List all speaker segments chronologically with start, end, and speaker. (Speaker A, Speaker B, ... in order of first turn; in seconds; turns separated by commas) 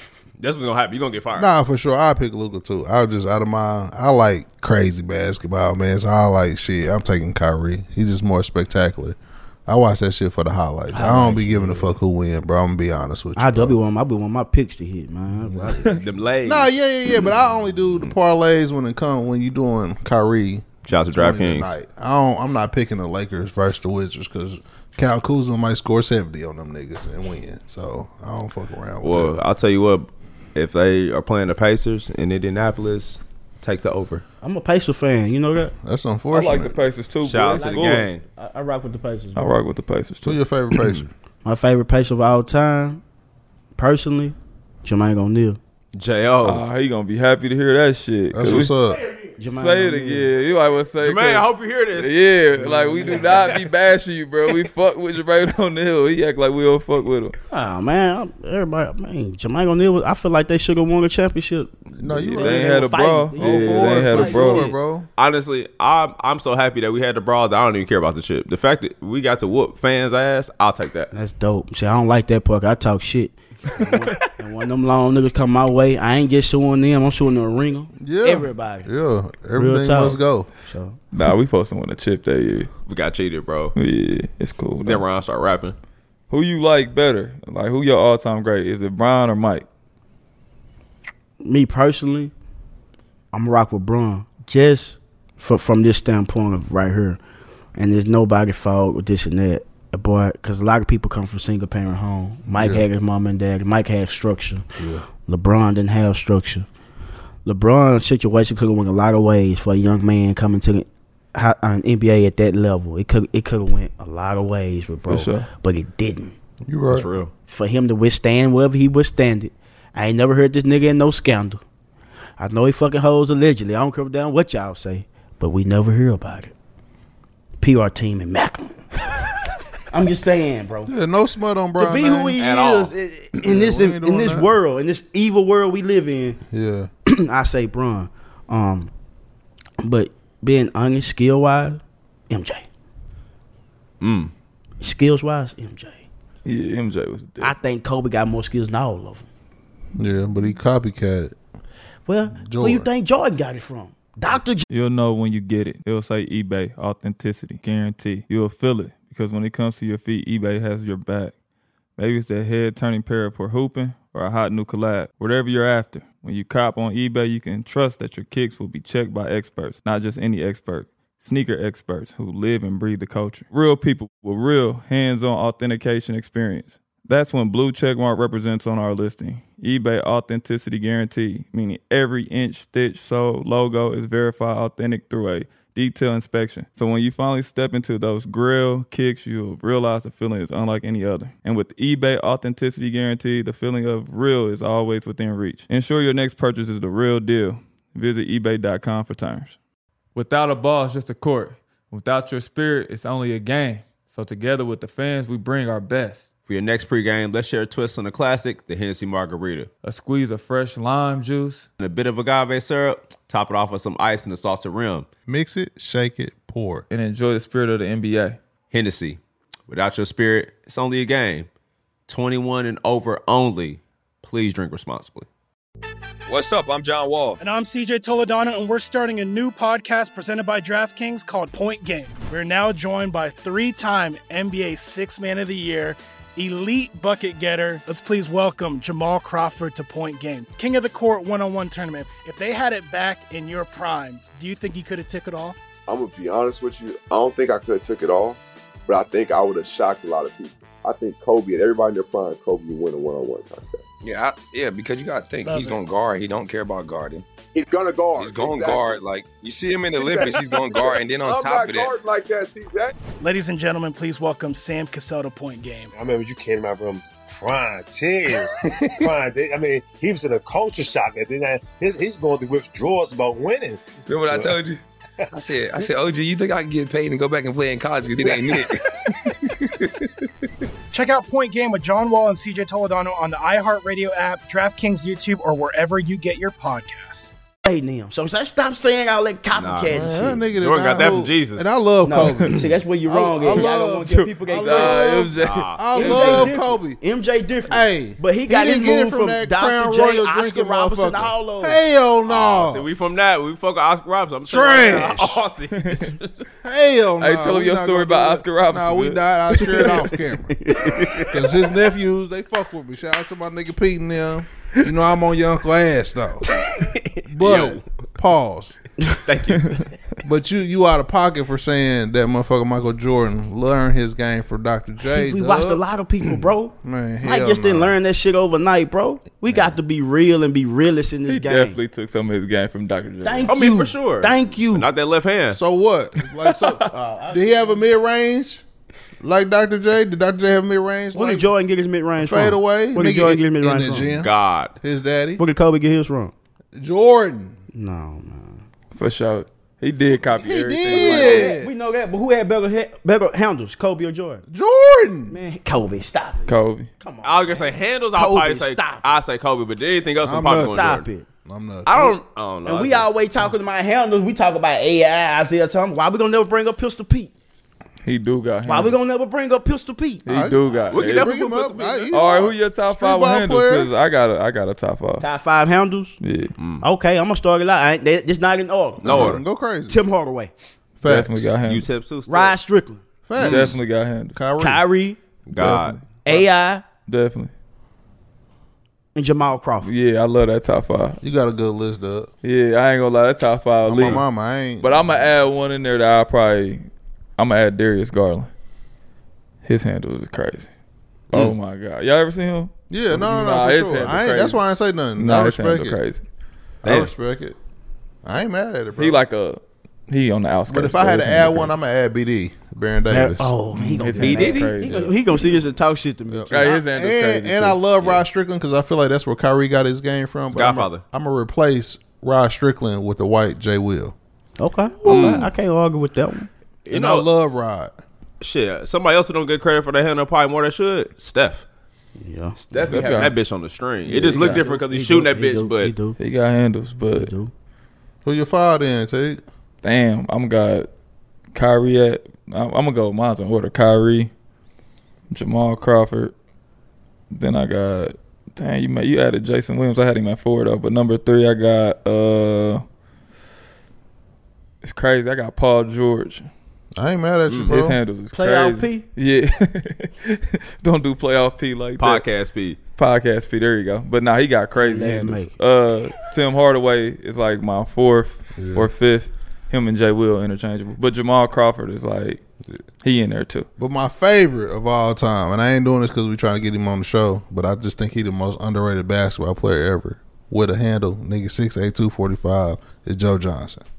Speaker A: 0.4-1.5, Speaker B: 1.4-13.8, Speaker C: 10.9-11.9, Speaker C: 13.3-16.0, Speaker B: 15.4-15.8, Speaker A: 16.0-17.3, Speaker B: 16.4-29.4, Speaker A: 20.9-21.7, Speaker A: 29.0-34.2, Speaker C: 34.4-35.7, Speaker B: 35.8-36.8, Speaker D: 36.3-38.1, Speaker A: 37.2-38.2, Speaker C: 37.5-39.5, Speaker D: 39.4-40.4, Speaker B: 40.2-41.1, Speaker C: 41.4-43.0, Speaker C: 43.8-45.6, Speaker A: 45.9-46.6, Speaker D: 46.4-48.7, Speaker B: 48.3-49.0, Speaker C: 49.4-50.3, Speaker D: 49.5-57.3, Speaker A: 51.0-52.1, Speaker C: 52.6-53.6, Speaker A: 53.0-53.6, Speaker C: 57.5-64.8, Speaker B: 62.0-62.7, Speaker D: 62.4-64.7, Speaker B: 63.4-65.1, Speaker A: 65.2-71.1, Speaker C: 71.1-78.9, Speaker B: 78.0-80.5, Speaker C: 79.5-81.0, Speaker D: 81.1-82.7, Speaker A: 82.9-83.7, Speaker D: 83.7-85.0, Speaker A: 84.8-85.7, Speaker D: 86.3-89.7, Speaker C: 91.4-92.3, Speaker C: 93.3-97.2, Speaker C: 97.8-104.7, Speaker B: 102.5-102.8, Speaker B: 104.8-105.0, Speaker C: 105.2-106.7, Speaker C: 107.4-116.3, Speaker D: 115.1-115.5, Speaker B: 116.7-117.1, Speaker A: 116.9-117.3, Speaker C: 117.5-121.6, Speaker C: 122.4-126.5, Speaker C: 127.6-128.9, Speaker C: 129.9-130.9, Speaker B: 130.9-132.4, Speaker C: 131.8-136.4, Speaker A: 132.4-132.9, Speaker B: 133.4-134.5, Speaker B: 136.5-136.9, Speaker C: 137.1-138.9, Speaker C: 139.8-142.7, Speaker A: 144.0-144.3, Speaker C: 144.8-146.0, Speaker D: 146.4-147.5, Speaker C: 147.4-149.3, Speaker B: 150.0-151.3, Speaker C: 152.1-154.7, Speaker B: 152.4-152.9, Speaker D: 154.7-161.3, Speaker D: 162.0-199.6, Speaker D: 200.1-206.3, Speaker A: 206.5-209.7, Speaker D: 209.8-211.7, Speaker A: 211.8-215.1, Speaker B: 215.3-216.8, Speaker D: 216.9-218.4, Speaker A: 218.7-221.5, Speaker A: 222.1-225.3, Speaker E: 226.2-227.4, Speaker F: 227.4-245.6, Speaker G: 245.9-253.8, Speaker E: 254.0-257.2, Speaker F: 255.4-255.8, Speaker G: 257.5-259.0, Speaker E: 258.2-261.9, Speaker G: 260.0-260.4, Speaker G: 261.2-262.9, Speaker F: 263.2-265.9, Speaker H: 265.9-274.5, Speaker E: 274.1-274.8, Speaker E: 275.3-279.9, Speaker F: 280.9-287.3, Speaker C: 287.6-290.4, Speaker A: 289.5-291.7, Speaker B: 289.9-297.0, Speaker C: 292.0-295.2, Speaker D: 294.5-296.5, Speaker A: 295.4-295.8, Speaker C: 295.9-301.8, Speaker B: 297.7-302.9, Speaker A: 302.2-306.4, Speaker B: 304.4-305.4, Speaker D: 305.8-306.1, Speaker B: 306.6-310.6, Speaker D: 307.2-309.2, Speaker C: 309.6-311.4, Speaker B: 311.2-316.4, Speaker B: 317.2-318.8, Speaker A: 317.4-317.8, Speaker A: 319.2-319.9, Speaker B: 320.2-328.0, Speaker C: 325.1-331.8, Speaker B: 329.5-329.8, Speaker D: 331.3-333.5, Speaker C: 333.2-334.9, Speaker A: 333.5-335.6, Speaker B: 335.5-338.6, Speaker C: 336.9-337.8, Speaker B: 339.2-341.5, Speaker C: 341.1-344.1, Speaker B: 342.2-345.4, Speaker A: 344.2-344.7, Speaker C: 345.4-346.3, Speaker B: 346.7-347.6, Speaker C: 347.7-348.6, Speaker D: 348.9-351.5, Speaker B: 350.1-351.7, Speaker C: 350.9-354.4, Speaker B: 354.5-355.4, Speaker C: 355.3-359.2, Speaker D: 356.5-356.9, Speaker A: 357.2-361.1, Speaker B: 360.2-362.2, Speaker C: 360.6-361.3, Speaker A: 361.9-363.1, Speaker C: 362.6-367.3, Speaker D: 368.0-368.9, Speaker C: 368.6-370.2, Speaker D: 370.2-371.4, Speaker B: 370.2-373.9, Speaker A: 370.9-372.1, Speaker D: 372.1-375.2, Speaker C: 375.2-376.2, Speaker D: 376.2-376.5, Speaker A: 376.6-376.8, Speaker C: 376.8-380.5, Speaker B: 379.0-380.0, Speaker A: 379.0-379.4, Speaker B: 381.0-381.5, Speaker D: 381.0-381.9, Speaker A: 381.6-382.6, Speaker C: 382.3-383.0, Speaker B: 383.3-383.8, Speaker A: 383.4-383.7, Speaker D: 383.4-384.4, Speaker B: 384.3-384.8, Speaker C: 384.6-385.2, Speaker A: 385.5-386.0, Speaker D: 385.5-386.0, Speaker C: 386.2-386.8, Speaker D: 387.1-387.5, Speaker C: 389.1-389.9, Speaker D: 389.8-391.2, Speaker B: 391.2-392.3, Speaker D: 392.4-394.2, Speaker B: 393.8-395.1, Speaker D: 394.8-396.9, Speaker D: 397.4-398.5, Speaker D: 399.6-400.7, Speaker D: 401.3-404.6, Speaker B: 402.9-406.0, Speaker D: 405.1-406.2, Speaker B: 406.8-407.6, Speaker B: 408.2-409.2, Speaker D: 409.0-411.7, Speaker B: 410.7-413.5, Speaker C: 413.1-416.8, Speaker D: 413.7-415.1, Speaker A: 414.2-414.7, Speaker B: 416.3-424.1, Speaker D: 416.5-417.8, Speaker A: 420.5-421.0, Speaker C: 424.6-426.5, Speaker A: 425.1-425.5, Speaker A: 426.9-427.2, Speaker B: 426.9-427.9, Speaker A: 428.4-431.6, Speaker C: 432.2-433.0, Speaker A: 432.6-435.9, Speaker D: 432.7-433.4, Speaker D: 434.1-434.6, Speaker C: 434.2-436.2, Speaker D: 436.2-437.3, Speaker C: 437.1-437.5, Speaker B: 438.2-439.4, Speaker D: 439.8-440.9, Speaker D: 441.5-444.3, Speaker D: 445.3-446.3, Speaker D: 447.3-452.8, Speaker D: 454.8-456.5, Speaker B: 456.9-458.0, Speaker A: 457.5-457.7, Speaker D: 457.7-462.2, Speaker C: 458.3-459.1, Speaker A: 462.0-462.8, Speaker D: 463.0-472.4, Speaker C: 464.8-465.5, Speaker B: 468.6-468.9, Speaker D: 473.0-473.7, Speaker B: 473.8-483.8